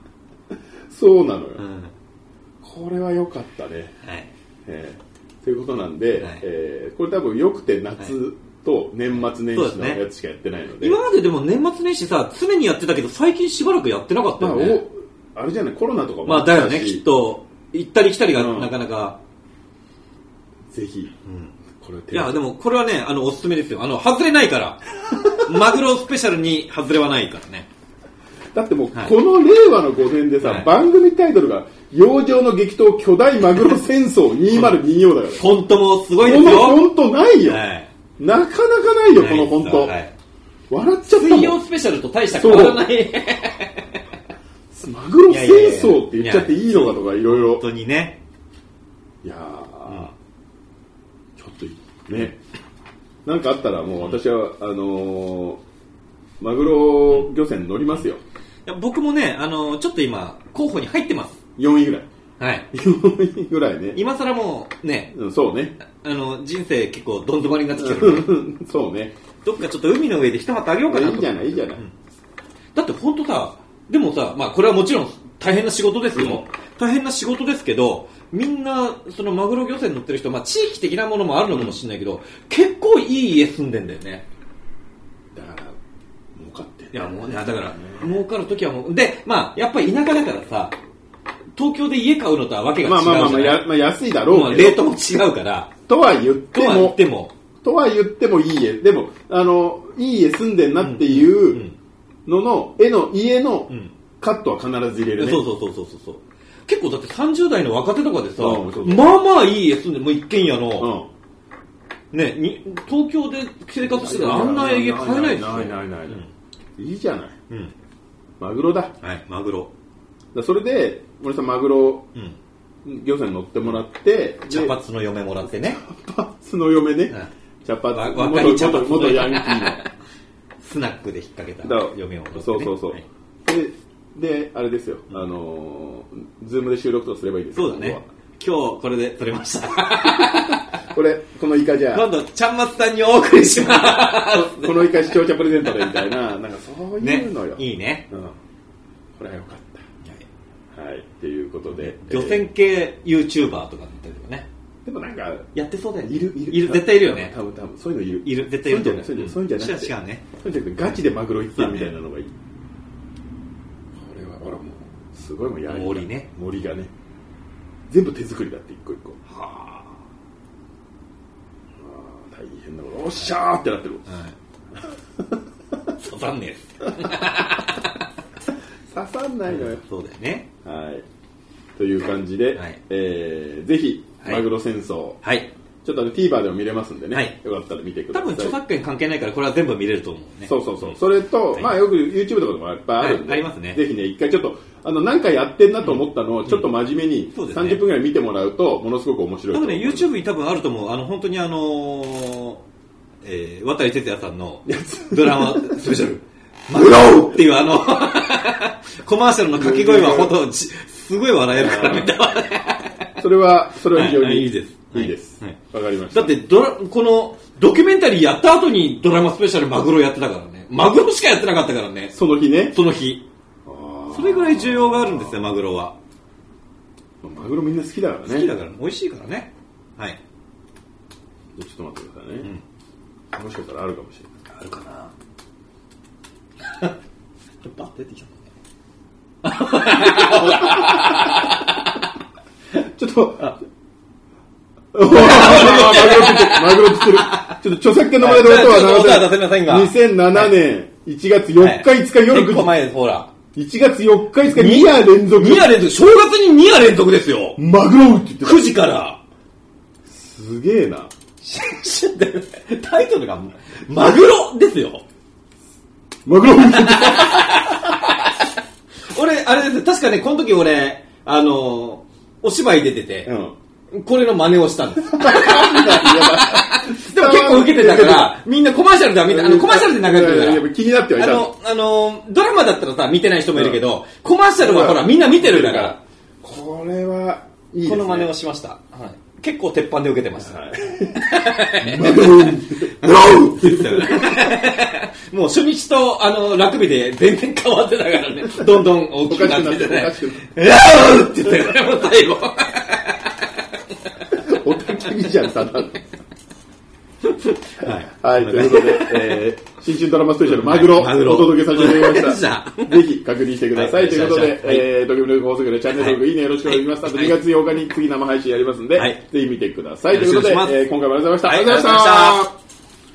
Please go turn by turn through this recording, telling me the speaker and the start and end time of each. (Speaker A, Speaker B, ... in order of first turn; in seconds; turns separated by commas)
Speaker A: 0.9-1.6, Speaker B: 1.6-1.9, Speaker A: 2.6-3.9, Speaker B: 4.0-4.3, Speaker A: 4.7-11.0, Speaker B: 9.2-10.0, Speaker B: 10.8-14.8, Speaker A: 14.4-17.1, Speaker B: 16.2-19.2, Speaker A: 18.4-18.7, Speaker A: 20.7-21.1, Speaker B: 21.3-21.5, Speaker A: 21.8-22.4, Speaker B: 22.1-27.7, Speaker A: 25.1-25.6, Speaker A: 28.5-35.4, Speaker B: 30.4-30.7, Speaker B: 34.5-34.8, Speaker B: 35.3-36.9, Speaker A: 36.2-37.6, Speaker B: 37.5-37.9, Speaker A: 38.2-40.0, Speaker B: 39.1-40.1, Speaker A: 40.7-41.6, Speaker B: 41.1-44.0, Speaker A: 42.3-42.9, Speaker A: 44.7-47.6, Speaker B: 45.3-48.2, Speaker A: 49.2-50.1, Speaker B: 49.9-50.1, Speaker A: 51.4-52.4, Speaker A: 53.2-55.6, Speaker A: 56.4-58.2, Speaker B: 58.7-61.4, Speaker A: 61.6-62.1, Speaker B: 62.4-62.7, Speaker A: 62.7-64.0, Speaker B: 63.9-65.2, Speaker A: 65.1-65.8, Speaker B: 65.9-68.4, Speaker A: 67.8-69.2, Speaker B: 69.4-71.9, Speaker A: 70.9-71.8, Speaker B: 72.8-84.3, Speaker A: 76.2-76.4, Speaker A: 81.5-81.8, Speaker A: 85.3-85.8, Speaker A: 86.3-88.1, Speaker B: 86.9-90.8, Speaker B: 91.5-93.7, Speaker A: 92.8-94.8, Speaker B: 94.3-95.7, Speaker A: 95.9-97.0, Speaker B: 96.5-97.3, Speaker A: 97.6-101.6, Speaker B: 100.8-101.8, Speaker A: 102.3-105.4, Speaker B: 105.2-110.9, Speaker A: 108.4-109.2, Speaker A: 110.8-111.1, Speaker B: 112.1-116.3, Speaker A: 113.8-116.2, Speaker A: 116.8-117.4, Speaker B: 117.5-117.8, Speaker A: 118.4-119.0, Speaker B: 119.0-119.7, Speaker A: 120.3-122.1, Speaker A: 122.8-124.8, Speaker B: 124.5-125.8, Speaker A: 125.5-129.8, Speaker B: 127.9-129.9, Speaker B: 130.6-133.1, Speaker A: 131.6-138.1, Speaker B: 137.6-140.8, Speaker A: 140.1-142.1, Speaker B: 141.9-146.1, Speaker A: 143.8-148.3, Speaker B: 147.0-148.1, Speaker A: 149.2-149.8, Speaker A: 150.7-152.4, Speaker B: 151.7-154.5, Speaker A: 154.8-155.5, Speaker B: 155.6-157.3, Speaker A: 156.1-162.3, Speaker B: 158.2-160.2, Speaker B: 161.6-161.9, Speaker A: 164.0-166.9, Speaker B: 165.7-166.3, Speaker A: 167.9-169.2, Speaker B: 169.3-169.9, Speaker A: 171.8-174.1, Speaker B: 174.1-174.3, Speaker A: 174.8-175.9, Speaker B: 176.0-178.0, Speaker A: 177.0-177.3, Speaker A: 178.9-179.8, Speaker B: 179.5-180.5, Speaker A: 180.6-181.1, Speaker A: 181.8-185.2, Speaker B: 185.2-185.5, Speaker A: 185.8-188.6, Speaker B: 188.1-191.0, Speaker A: 190.5-200.1, Speaker B: 191.5-191.8, Speaker B: 193.0-193.8, Speaker B: 195.8-196.7, Speaker B: 197.3-197.8, Speaker B: 199.5-202.6, Speaker B: 203.2-213.1, Speaker A: 204.7-205.9, Speaker A: 206.8-207.1, Speaker A: 209.5-210.4, Speaker A: 211.5-212.2, Speaker A: 213.2-216.3, Speaker B: 213.9-215.6, Speaker B: 216.1-222.2, Speaker A: 222.1-222.8, Speaker B: 222.7-223.3, Speaker A: 223.7-225.4, Speaker B: 224.1-226.0, Speaker A: 227.2-228.5, Speaker B: 228.2-230.2, Speaker A: 231.6-232.5, Speaker A: 233.3-234.4, Speaker B: 234.5-235.1, Speaker B: 237.6-238.5, Speaker B: 239.4-242.0, Speaker A: 239.9-241.5, Speaker A: 242.7-243.6, Speaker A: 244.9-252.7, Speaker B: 245.1-247.6, Speaker B: 248.2-250.6, Speaker B: 251.6-253.3, Speaker A: 253.6-255.8, Speaker B: 254.4-257.6, Speaker A: 257.6-258.7, Speaker B: 258.4-259.2, Speaker A: 260.1-261.1, Speaker B: 261.4-265.0, Speaker A: 266.3-267.9, Speaker B: 266.7-268.3, Speaker B: 269.1-273.3, Speaker A: 273.3-273.6, Speaker B: 273.9-286.0, Speaker A: 275.1-278.4, Speaker A: 279.2-281.5, Speaker A: 283.6-283.8, Speaker A: 284.6-288.3, Speaker B: 287.8-303.6, Speaker A: 290.4-294.6, Speaker A: 298.4-300.5, Speaker A: 304.3-306.0, Speaker B: 307.2-309.4, Speaker A: 307.8-322.5, Speaker B: 310.4-313.0, Speaker B: 313.7-314.9, Speaker B: 316.0-317.4, Speaker B: 318.9-319.2, Speaker B: 320.1-320.8, Speaker B: 321.5-322.5